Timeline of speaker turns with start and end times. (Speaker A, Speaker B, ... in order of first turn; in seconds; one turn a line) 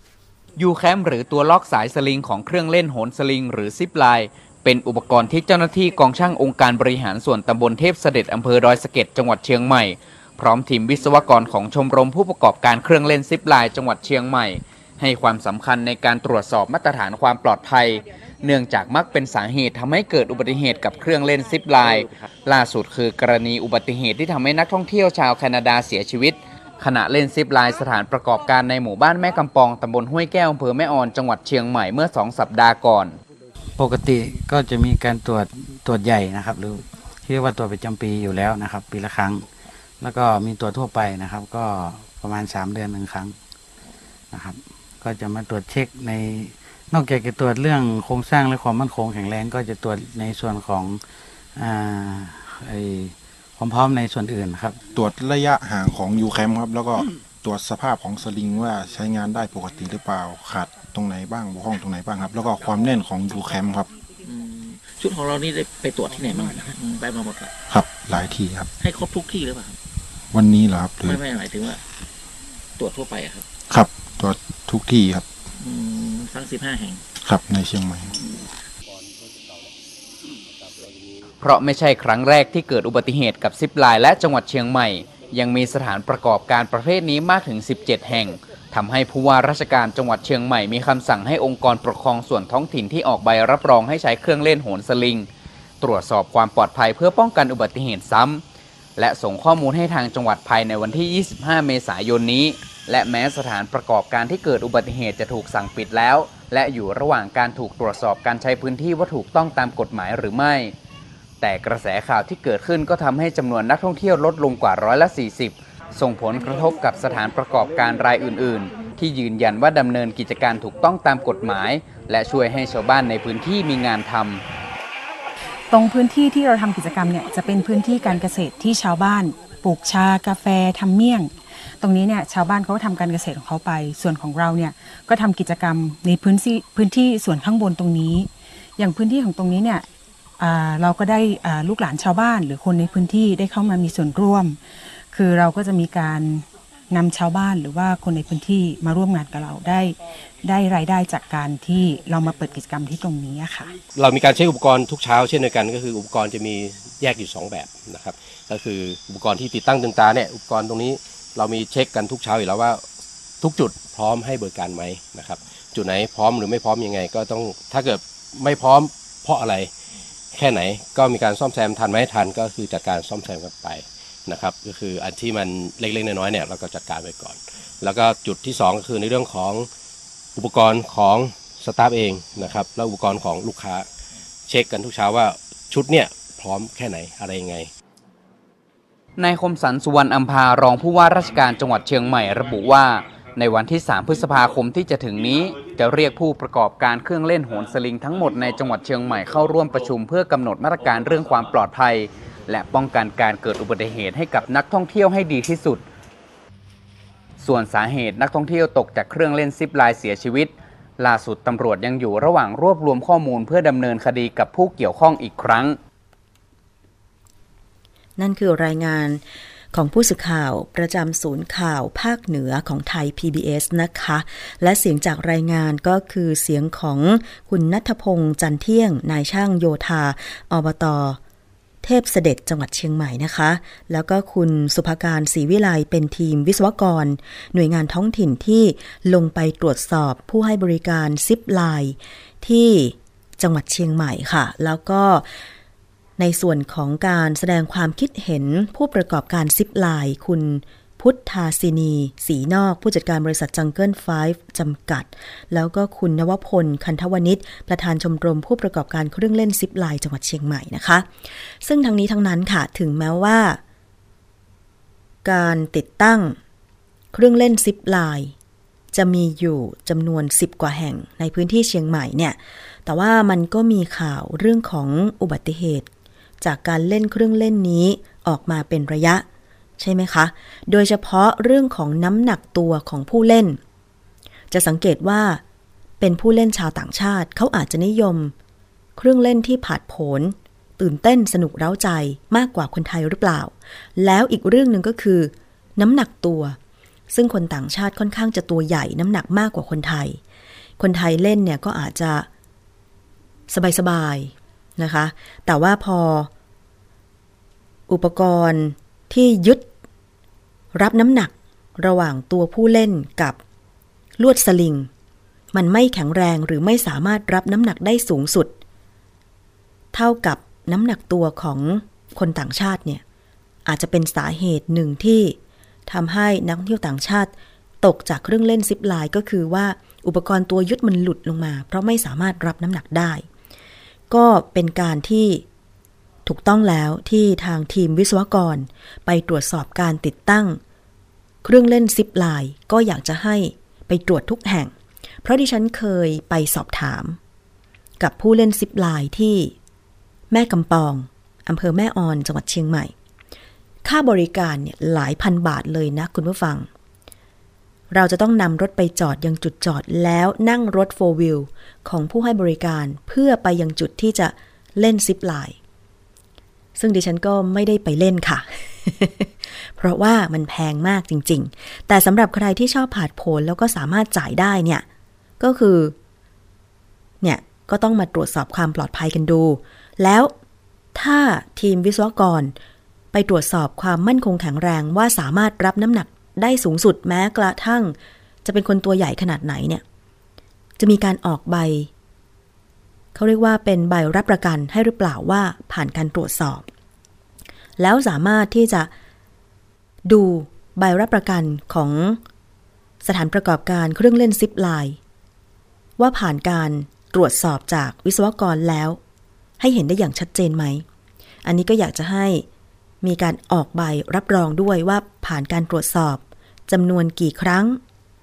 Speaker A: 0.6-33.2
Speaker B: 33.8-39.5
Speaker B: 40.0-43.4
Speaker B: 44.3-51.0
Speaker B: 51.6-54.8
Speaker C: 54.9-63.9
Speaker D: 64.2-67.5
Speaker C: 67.7-68.7
Speaker D: 68.8-69.8
Speaker C: 70.3-71.2
Speaker D: 71.0-71.8
Speaker D: 72.8-73.5
Speaker C: 73.7-75.3
Speaker D: 75.6-77.0
Speaker C: 77.2-78.1
Speaker D: 78.2-78.5
Speaker A: 81.4-95.3
Speaker A: 95.8-98.4
Speaker A: 99.0-110.8
Speaker A: 111.4-124.4
Speaker E: 125.7-139.9
Speaker E: 140.4-144.6
Speaker E: 145.1-153.8
Speaker F: 153.9-162.8
Speaker F: 163.4-169.7
Speaker F: 170.3-179.7
Speaker F: 180.4-183.9
Speaker F: 184.5-187.7
Speaker A: 189.2-205.8
Speaker A: 207.4-215.8
Speaker G: 218.2-219.2
Speaker G: 219.7-231.2
Speaker G: 231.8-245.3
Speaker G: 246.2-261.1
Speaker G: 261.6-263.6
Speaker G: 265.2-266.4
Speaker G: 267.1-268.4
Speaker G: 268.9-275.9
Speaker G: 276.4-279.2
Speaker G: 279.8-283.6
Speaker G: 284.5-285.4
Speaker G: 286.0-288.3
Speaker G: 289.0-296.6
Speaker G: 297.1-300.2
Speaker G: 300.8-302.3
Speaker G: 303.5-306.3
Speaker G: 307.9-309.7
Speaker G: 310.8-313.4
Speaker G: 314.2-314.9
Speaker G: 315.5-318.5
Speaker G: 319.9-323.0
Speaker G: 323.6-333.3
Speaker G: 334.1-335.4
Speaker G: 336.2-340.6
Speaker G: 341.4-344.7
Speaker G: 345.2-347.2
Speaker G: 348.0-349.5
Speaker G: 350.3-352.9
Speaker G: 353.8-356.7
Speaker G: 357.9-365.6
Speaker G: 366.8-374.9
Speaker G: 375.4-375.9
Speaker G: 377.2-380.3
Speaker G: 380.9-382.5
Speaker G: 383.1-389.8
Speaker G: 390.8-391.9
Speaker G: 393.1-396.7
Speaker G: 397.8-398.9
Speaker G: 400.1-402.2
Speaker G: 403.0-405.0
Speaker G: 406.0-409.0
Speaker G: 409.6-410.9
Speaker G: 411.4-412.4
Speaker G: 413.0-417.8